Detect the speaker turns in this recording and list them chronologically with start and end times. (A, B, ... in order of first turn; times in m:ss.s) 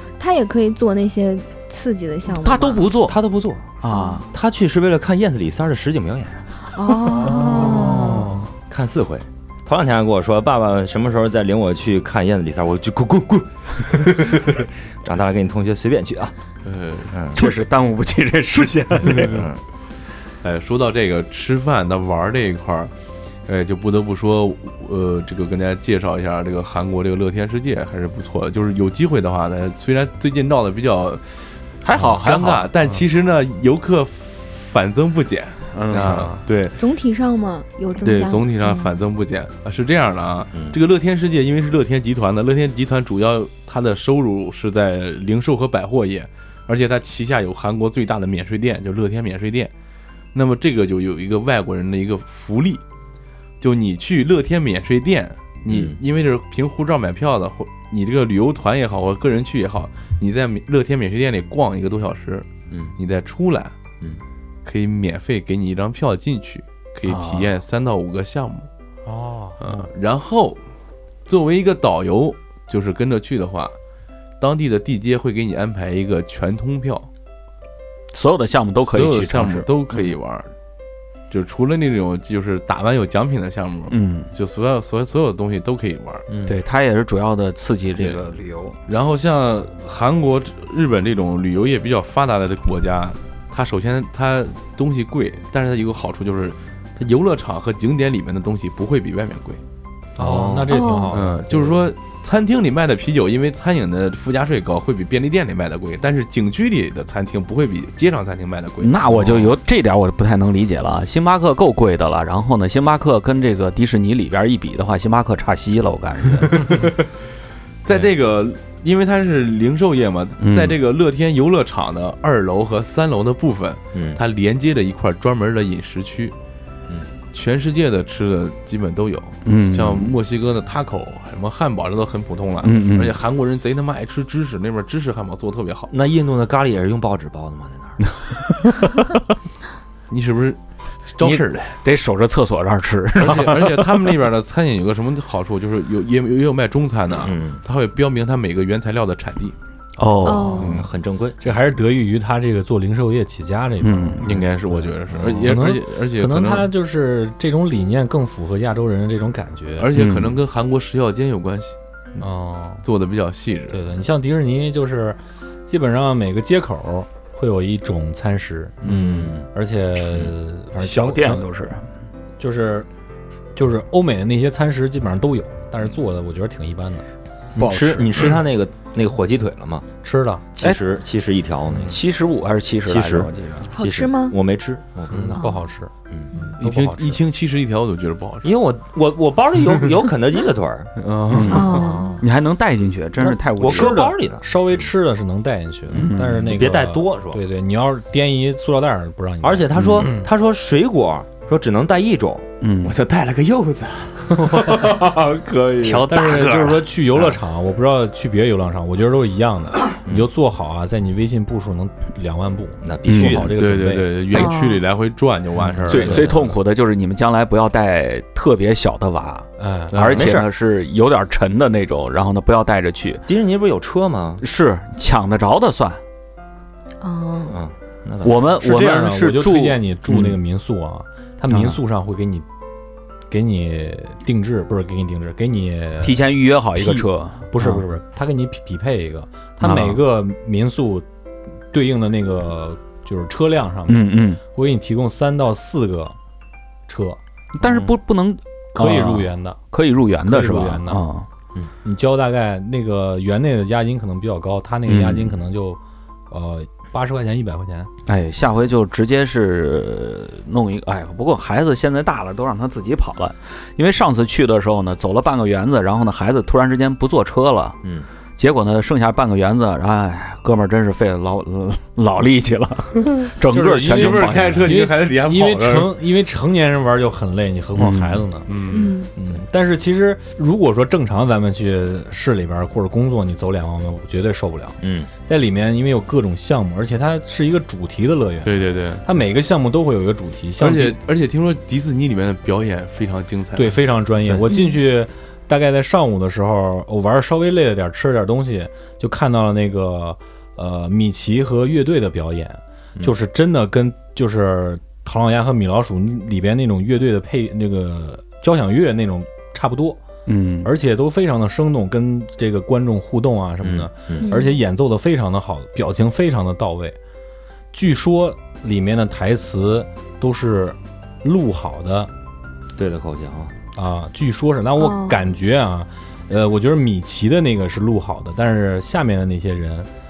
0:00.2-0:02.9 A
0:02.3-0:03.2 B
0:03.0-0:03.7 C
0:03.8-0:04.3 B
0:03.9-0:04.2 A
0:04.3-0:06.6 C
0:06.7-0:08.4 A
0:07.4-0:08.4 D
0:08.7-0:16.3 C
0:16.6-0:17.2 D
0:17.1-0:17.4 C
0:17.3-0:19.5 B
0:19.2-0:19.6 C
0:20.4-0:22.9 D
0:23.5-0:36.8 D
0:31.8-0:32.7 B
0:35.7-0:36.4 B
0:36.8-0:38.9 A
0:38.0-0:49.7 D
0:40.5-0:40.8 C
0:50.3-0:52.8 D
0:53.6-1:03.8 D
0:55.7-0:56.0 C
1:02.7-1:03.0 C
1:04.6-1:08.7 D
1:07.0-1:07.5 B
1:09.1-1:09.8 E
1:09.6-1:10.6 D
1:11.3-1:13.8 D
1:14.4-1:17.1 D
1:18.1-1:19.7 B
1:18.9-1:20.5 D
1:21.3-1:26.2 D
1:23.9-1:24.3 B
1:26.3-1:26.6 C
1:26.5-1:28.8 B
1:28.9-1:39.6 D
1:40.2-1:41.9 E
1:40.2-1:40.7 C
1:40.7-1:41.1 A
1:41.1-1:49.5 D
1:48.8-1:56.9 B
1:56.6-1:57.0 D
1:57.8-2:06.4 D
2:00.4-2:00.8 B
2:03.9-2:04.2 C
2:07.3-2:15.9 D
2:09.4-2:10.2 B
2:12.6-2:13.2 B
2:15.9-2:18.1 C
2:18.5-2:19.2 B
2:20.1-2:20.6 D
2:21.1-2:21.8 D
2:21.2-2:24.2 B
2:23.2-2:29.6 D
2:27.2-2:27.6 C
2:30.0-2:30.8 B
2:30.2-2:30.8 A
2:30.5-2:31.4 C
2:30.6-2:30.9 D
2:31.4-2:39.9 E
2:33.8-2:34.4 B
2:34.2-2:36.7 D
2:39.8-2:41.8 D
2:39.9-2:40.4 B
2:42.2-2:42.8 E
2:42.8-2:43.8 D
2:43.7-2:51.4 E
2:48.8-2:49.5 C
2:48.9-2:49.2 B
2:50.8-2:51.9 B
2:52.4-2:52.9 E
2:53.6-2:57.0 E
2:57.6-2:58.4 B
2:57.6-2:59.9 C
3:00.0-3:00.5 E
3:00.6-3:02.0 C
3:01.8-3:03.7 B
3:02.9-3:05.4 C
3:03.7-3:04.4 A
3:05.1-3:07.2 E
3:05.3-3:05.6 A
3:06.6-3:08.5 D
3:08.4-3:11.0 C
3:11.0-3:12.0 D
3:11.3-3:14.0 B
3:11.5-3:12.2 A
3:13.3-3:14.9 C
3:13.6-3:20.3 E
3:15.9-3:16.5 B
3:16.0-3:17.4 C
3:19.4-3:22.5 C
3:19.7-3:20.1 B
3:22.6-3:23.0 B
3:22.8-3:26.1 D
3:25.8-3:27.4 C
3:26.1-3:34.4 E
3:32.8-3:33.6 C
3:33.1-3:33.5 B
3:33.5-3:36.4 D
3:34.3-3:34.8 A
3:35.7-3:36.3 E
3:35.9-3:43.3 B
3:35.9-3:36.2 C
3:39.6-3:40.0 E
3:39.9-3:40.4 D
3:40.1-3:40.5 C
3:43.3-3:44.4 C
3:44.4-3:46.0 B
3:47.0-3:47.6 A
3:47.5-3:48.4 C
3:48.2-3:50.4 B
3:48.5-3:52.5 E
3:51.5-3:51.8 B
3:53.3-3:56.2 E
3:56.0-3:57.8 B
3:56.8-4:01.1 E
3:59.6-4:00.0 B
4:01.7-4:06.2 E
4:03.9-4:04.4 B
4:06.9-4:07.2 E
4:07.6-4:11.3 B
4:08.7-4:09.6 E
4:10.2-4:11.0 E
4:11.8-4:17.9 E
4:14.9-4:15.4 B
4:18.1-4:27.8 B
4:28.4-4:34.8 B
4:33.5-4:38.5 E
4:33.8-4:36.0 D
4:37.8-4:38.3 B
4:38.5-4:39.0 D
4:38.7-4:39.1 A
4:39.2-4:51.0 E
4:44.8-4:45.1 C
4:48.4-4:49.1 D
4:50.6-4:53.8 D
4:53.6-5:10.0 E
4:54.5-4:54.8 A
5:10.3-5:10.7 B
5:10.6-5:17.0 E
5:13.6-5:14.3 C
5:14.2-5:14.6 A
5:17.7-5:22.1 E
5:22.8-5:23.5 C
5:23.8-5:29.9 E
5:24.8-5:25.2 A